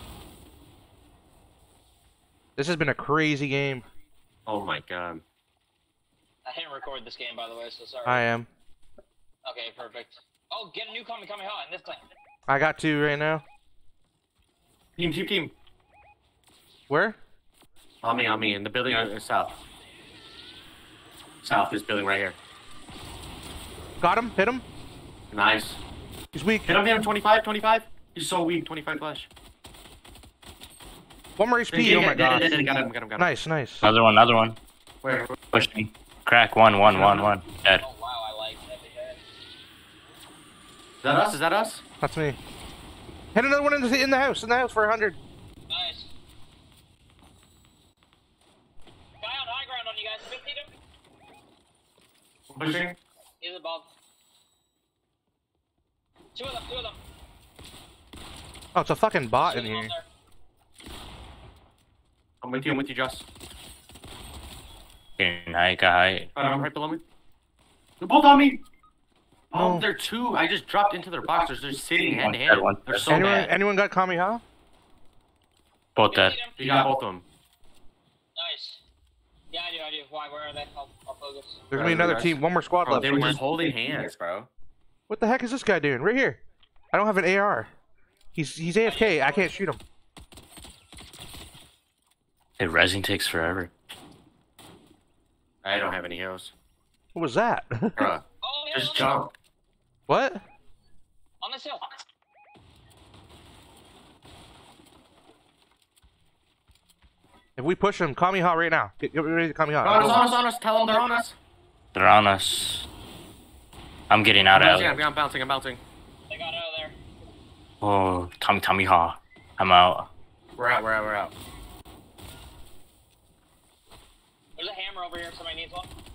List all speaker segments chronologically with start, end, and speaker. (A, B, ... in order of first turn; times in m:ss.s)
0:02.6-0:03.8 A
0:04.5-0:05.2 B
0:06.4-0:08.2 C
0:08.1-0:08.5 A
0:09.4-0:12.0 C
0:12.5-0:13.4 A
0:15.0-0:15.5 B
0:16.9-0:17.2 A
0:18.0-0:19.6 B
0:21.4-0:22.4 B
0:24.0-0:24.6 A
0:25.3-0:25.8 B
0:26.3-0:26.8 A
0:26.7-0:29.3 B
0:31.4-0:33.9 A
0:31.7-0:33.3 B
0:33.8-0:34.6 D
0:35.0-0:35.7 B
0:35.5-0:37.8 D
0:36.8-0:37.3 B
0:37.8-0:39.2 C
0:41.0-0:41.8 B
0:42.0-0:42.4 A
0:43.3-0:45.2 A
0:45.7-0:46.1 C
0:49.2-0:50.7 C
0:52.5-0:53.0 B
0:53.4-0:53.9 C
0:56.4-0:57.0 C
0:58.8-0:59.9 A
0:59.4-1:00.1 C
1:02.4-1:03.3 B
1:05.2-1:06.3 D
1:06.3-1:07.0 B
1:08.0-1:08.6 B
1:09.5-1:13.5 B
1:09.5-1:09.8 A
1:12.0-1:13.2 D
1:13.1-1:14.4 A
1:16.0-1:16.4 D
1:16.1-1:16.7 C
1:16.6-1:17.3 B
1:18.4-1:18.8 C
1:19.5-1:21.6 C
1:21.7-1:23.4 A
1:21.7-1:24.5 B
1:25.1-1:26.4 A
1:26.9-1:27.7 A
1:28.4-1:29.8 A
1:28.8-1:29.5 C
1:32.6-1:33.7 D
1:35.6-1:36.5 B
1:37.1-1:38.1 A
1:38.0-1:39.3 B
1:38.4-1:39.1 C
1:40.1-1:40.4 A
1:41.4-1:41.9 C
1:47.6-1:50.4 A
1:49.8-1:51.4 B
1:51.9-1:52.9 D
1:54.1-1:55.0 D
1:54.5-1:55.8 B
1:56.3-1:57.0 C
1:57.8-2:00.1 D
2:00.6-2:01.3 B
2:04.6-2:05.9 C